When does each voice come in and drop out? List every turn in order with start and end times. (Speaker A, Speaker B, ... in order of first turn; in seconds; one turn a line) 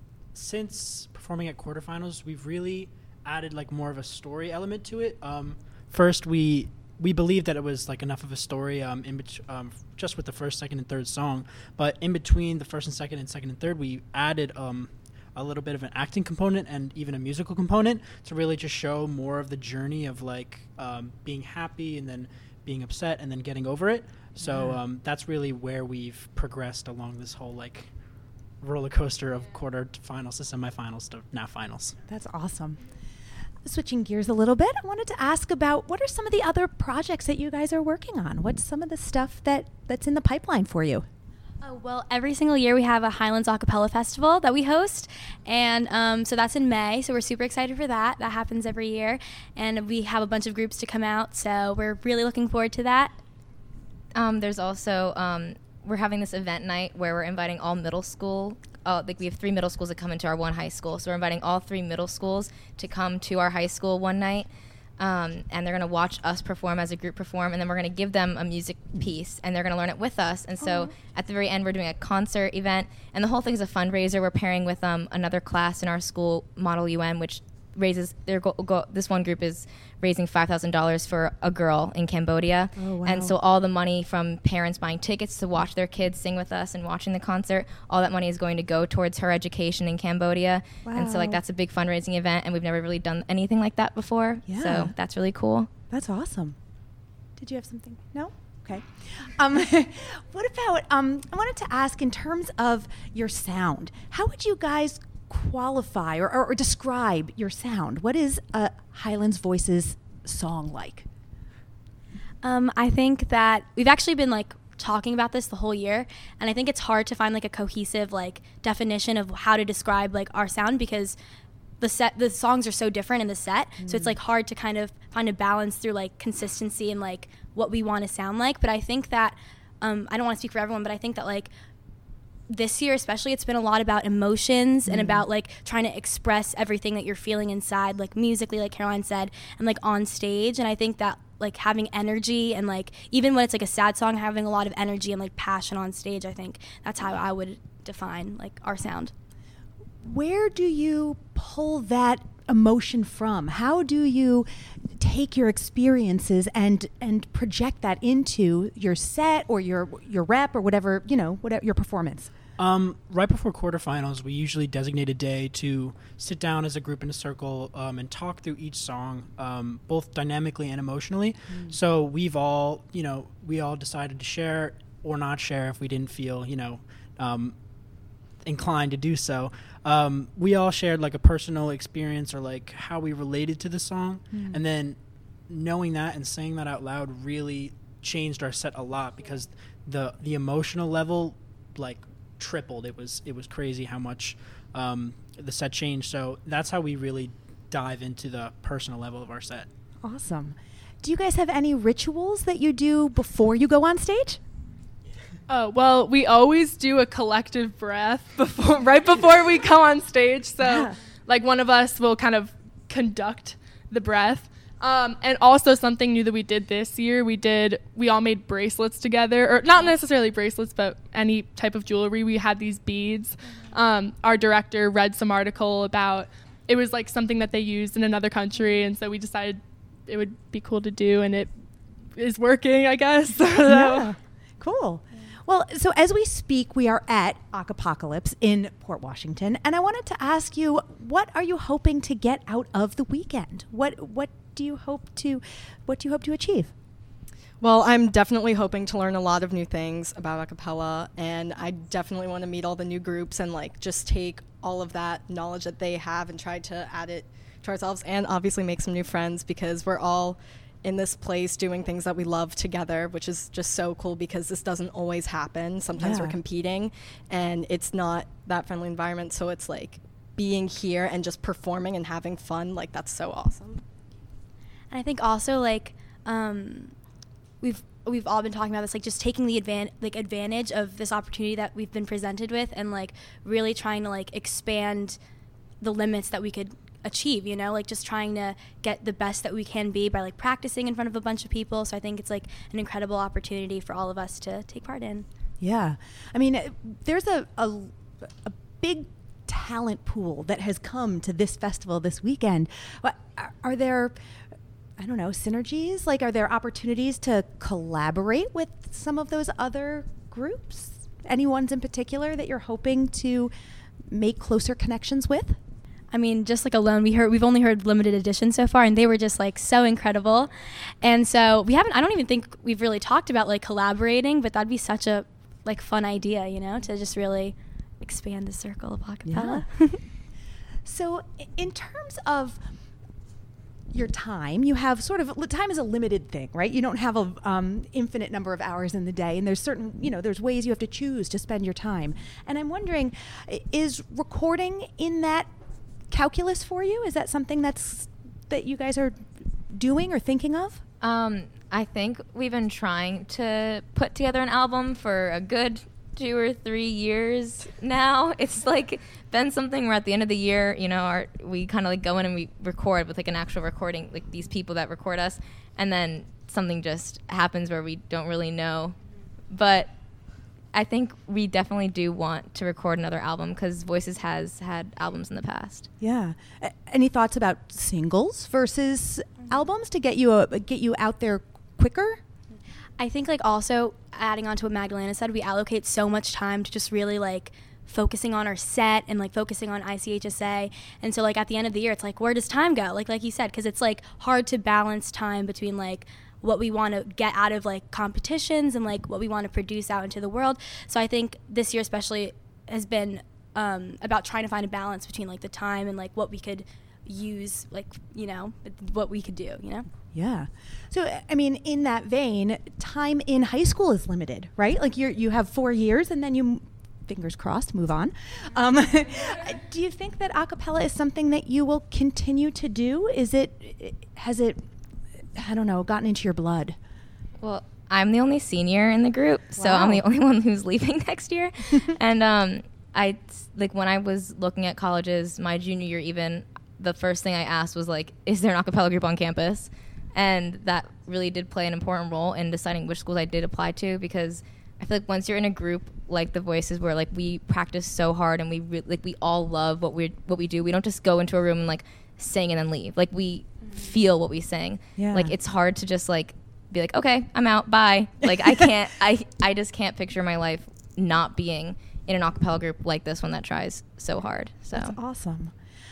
Speaker A: 0.3-27.9
Speaker B: 24.4-24.8
Speaker A: 28.6-31.9
Speaker B: 32.1-32.8
Speaker B: 33.6-41.1
Speaker C: 41.6-53.2
Speaker D: 54.1-95.7
Speaker B: 82.8-83.4
Speaker B: 90.8-91.4
Speaker B: 94.5-94.9
Speaker B: 95.9-96.6
Speaker B: 97.4-111.1
Speaker C: 112.4-121.2
Speaker C: 121.8-131.5
Speaker B: 123.8-124.2
Speaker C: 132.5-149.1
Speaker B: 134.9-135.2
Speaker B: 150.0-162.3
Speaker A: 162.6-177.6
Speaker B: 171.5-171.8
Speaker A: 178.4-185.0
Speaker B: 184.3-184.6
Speaker A: 185.5-199.7
Speaker B: 200.0-204.4
Speaker E: 205.5-231.5
Speaker B: 210.6-210.9
Speaker E: 232.2-234.1
Speaker B: 233.6-246.7
Speaker F: 247.6-273.8
Speaker B: 266.0-266.4
Speaker C: 274.9-276.9
Speaker C: 277.6-285.2
Speaker C: 285.8-295.3
Speaker B: 295.6-304.2
Speaker B: 305.0-313.5
Speaker B: 314.1-315.6
Speaker C: 316.1-330.0
Speaker B: 329.2-329.7
Speaker B: 330.9-332.6
Speaker B: 333.9-345.5
Speaker B: 346.1-350.8
Speaker D: 351.0-368.9
Speaker D: 369.5-369.9
Speaker D: 370.7-375.9
Speaker B: 376.0-382.2
Speaker C: 383.0-409.9
Speaker B: 410.1-424.6
Speaker B: 425.4-426.8
Speaker D: 427.4-464.9
Speaker B: 429.6-430.0
Speaker B: 455.0-455.3
Speaker B: 464.7-465.5